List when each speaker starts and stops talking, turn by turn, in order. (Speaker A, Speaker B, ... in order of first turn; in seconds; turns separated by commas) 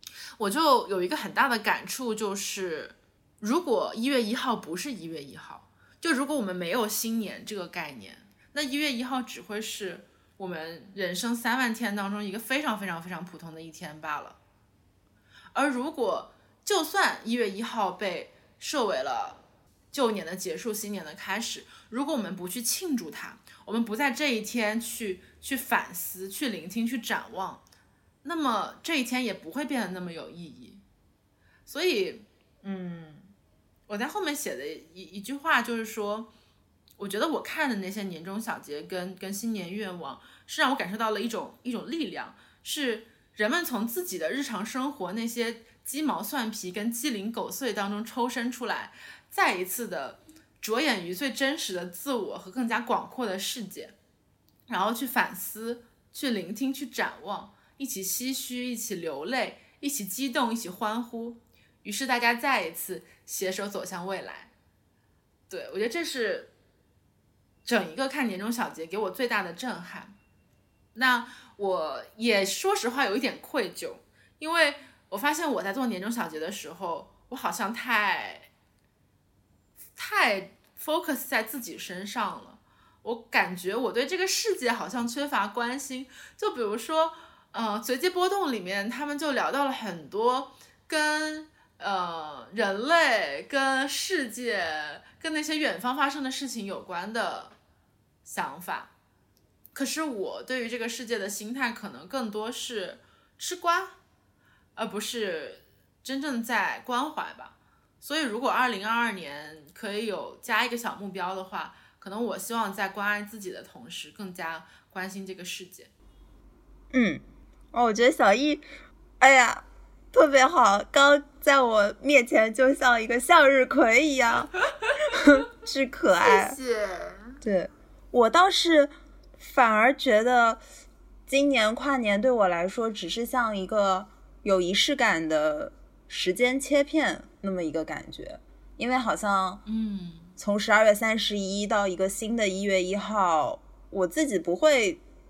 Speaker A: 0.4-14.4, Speaker A: 15.6-27.6, Speaker A: 28.2-30.8, Speaker A: 31.7-33.3, Speaker A: 33.9-36.3, Speaker A: 37.0-54.0, Speaker A: 54.7-64.5, Speaker A: 65.5-66.5, Speaker A: 67.7-70.2, Speaker A: 71.0-78.5, Speaker A: 80.0-97.5, Speaker A: 98.2-98.9, Speaker A: 99.7-104.0, Speaker A: 104.8-115.9, Speaker B: 116.9-117.2, Speaker B: 117.7-118.7, Speaker B: 119.2-126.6, Speaker A: 126.2-127.4, Speaker B: 127.4-130.6, Speaker B: 131.3-139.6, Speaker A: 139.7-140.3, Speaker B: 140.4-145.0